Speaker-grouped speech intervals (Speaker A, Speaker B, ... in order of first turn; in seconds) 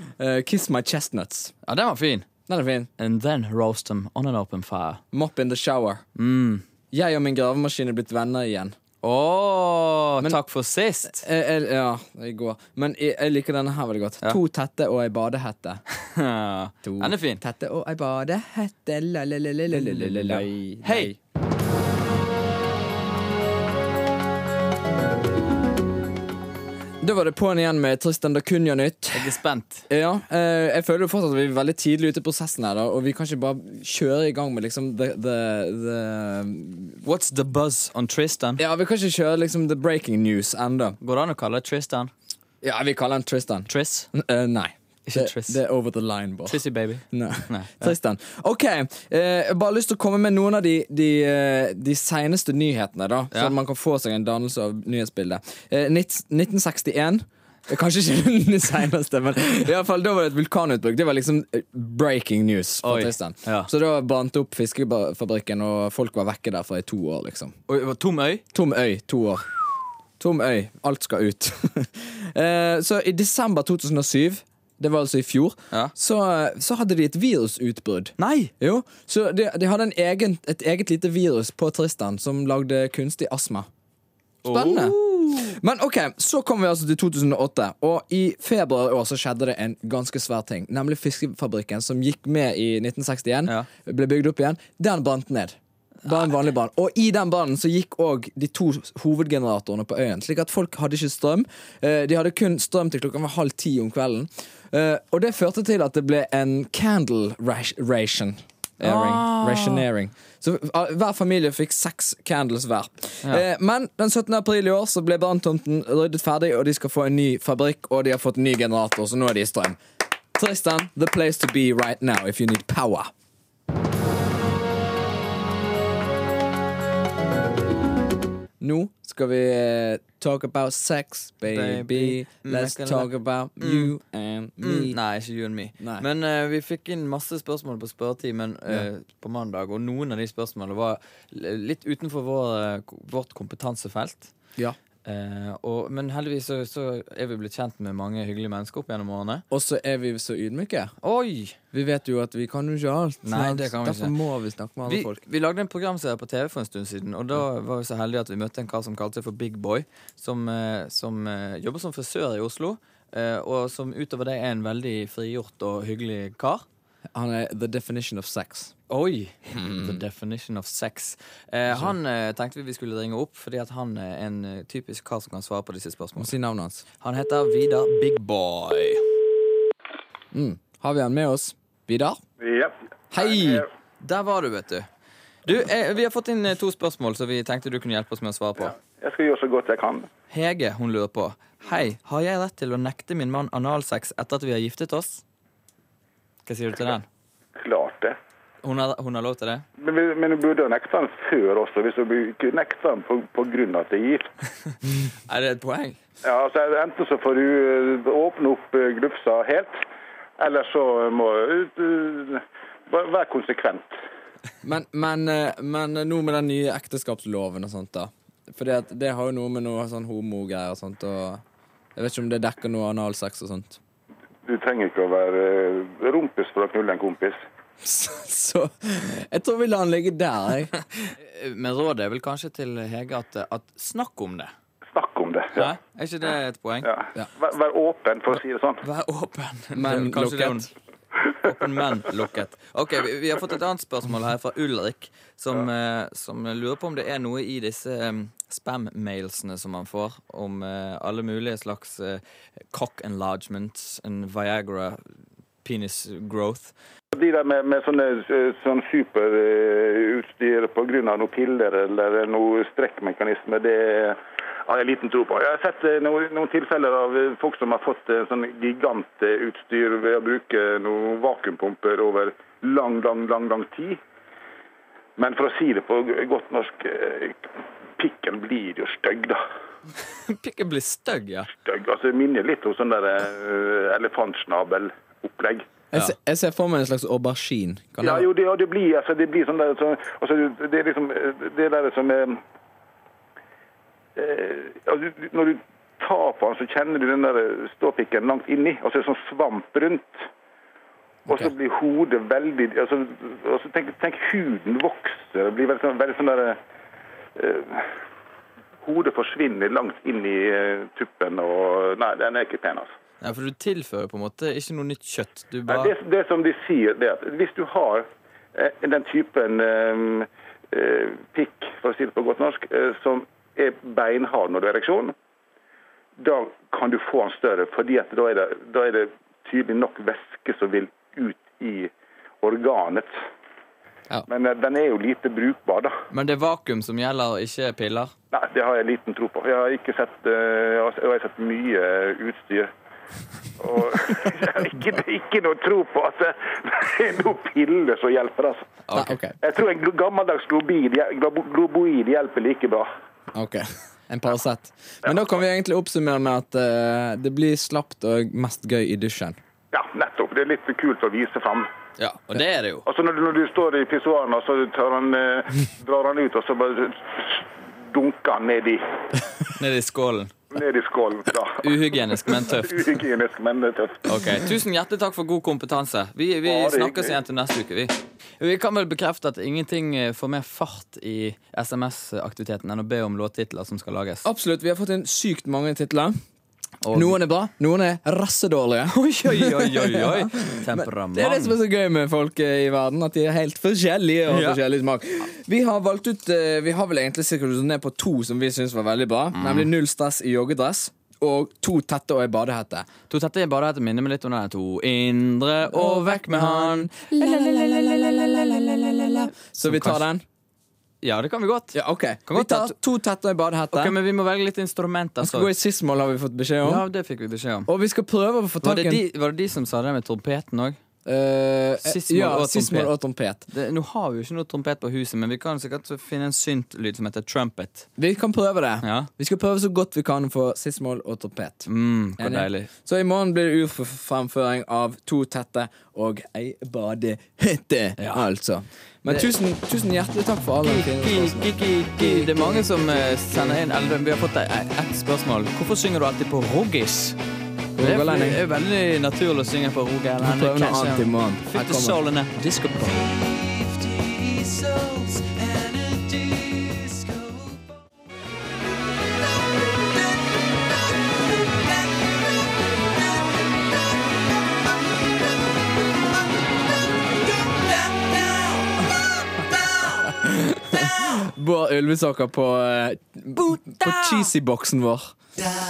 Speaker A: 0.2-1.5, 2.5-2.9, 5.1-6.0, 6.9-8.7, 11.1-15.8, 16.8-21.2, 27.0-37.0, 38.6-41.0, 42.6-67.5, 68.5-69.5, 70.2-83.7, 84.5-119.8, 120.3-123.1, 128.6-135.0, 135.8-136.1, 149.5-150.9, 151.7-155.2, 167.1-168.7, 169.5-170.0, 171.7-171.9, 176.2-176.8, 180.3-182.2, 183.1-183.7, 214.6-221.4, 221.9-223.8, 227.8-231.1, 239.7-240.7, 285.9-288.3, 301.3-301.5, 348.9-349.3, 353.3-359.4, 384.2-386.1, 386.9-402.9, 405.7-410.2, 411.7-413.9, 415.2-416.8, 417.7-419.0, 421.0-423.4, 428.0-443.6, 447.8-448.4, 450.2-452.0, 469.9-475.1
Speaker B: 1.6-2.3, 3.0-5.0, 6.2-6.7, 9.0-11.2, 15.9-17.4, 19.7-21.1, 29.1-29.9, 37.0-38.6, 41.0-42.1, 43.7-44.1, 45.0-45.6, 46.5-47.9, 62.8-63.7, 67.7-68.4, 78.2-78.5, 84.4-85.5, 108.8-109.8, 131.5-133.9, 134.6-144.3, 145.0-149.4, 151.0-151.6, 153.2-154.1, 154.8-166.6, 168.9-176.3, 177.0-179.0, 184.0-184.9, 185.4-188.7, 190.3-195.2, 196.4-197.1, 198.6-199.6, 205.3-206.0, 231.2-234.5, 235.5-236.9, 238.8-240.7, 241.4-255.0, 255.6-256.7, 280.1-281.5, 313.2-315.9, 336.1-338.1, 348.9-349.1, 362.0-362.8, 369.6-370.4, 371.6-372.9, 374.0-384.3, 386.8-387.2, 388.9-391.6, 394.3-394.6, 399.4-399.7, 403.1-406.9, 409.6-410.0, 411.0-412.7, 413.7-415.5, 416.6-417.7, 418.6-420.8, 421.8-422.9, 423.5-427.9, 428.8-429.1, 431.6-432.7, 438.0-438.2, 440.6-447.2, 447.8-457.6, 473.4-474.3
Speaker C: 182.4-183.7, 188.8-190.1, 197.6-198.2, 199.8-204.3, 206.2-209.8, 210.4-213.9, 224.4-227.4, 234.9-235.7, 236.8-238.8, 257.1-274.0, 275.2-279.4, 281.6-285.7, 288.0-292.4, 294.1-300.2, 301.3-306.6, 307.4-307.9, 308.8-312.9, 315.7-325.1, 326.2-331.9, 332.4-333.1, 334.3-336.0, 338.3-342.7, 343.6-348.8, 349.4-352.9, 359.7-361.7, 362.8-368.8, 370.5-371.7, 372.3-374.1, 376.4-377.2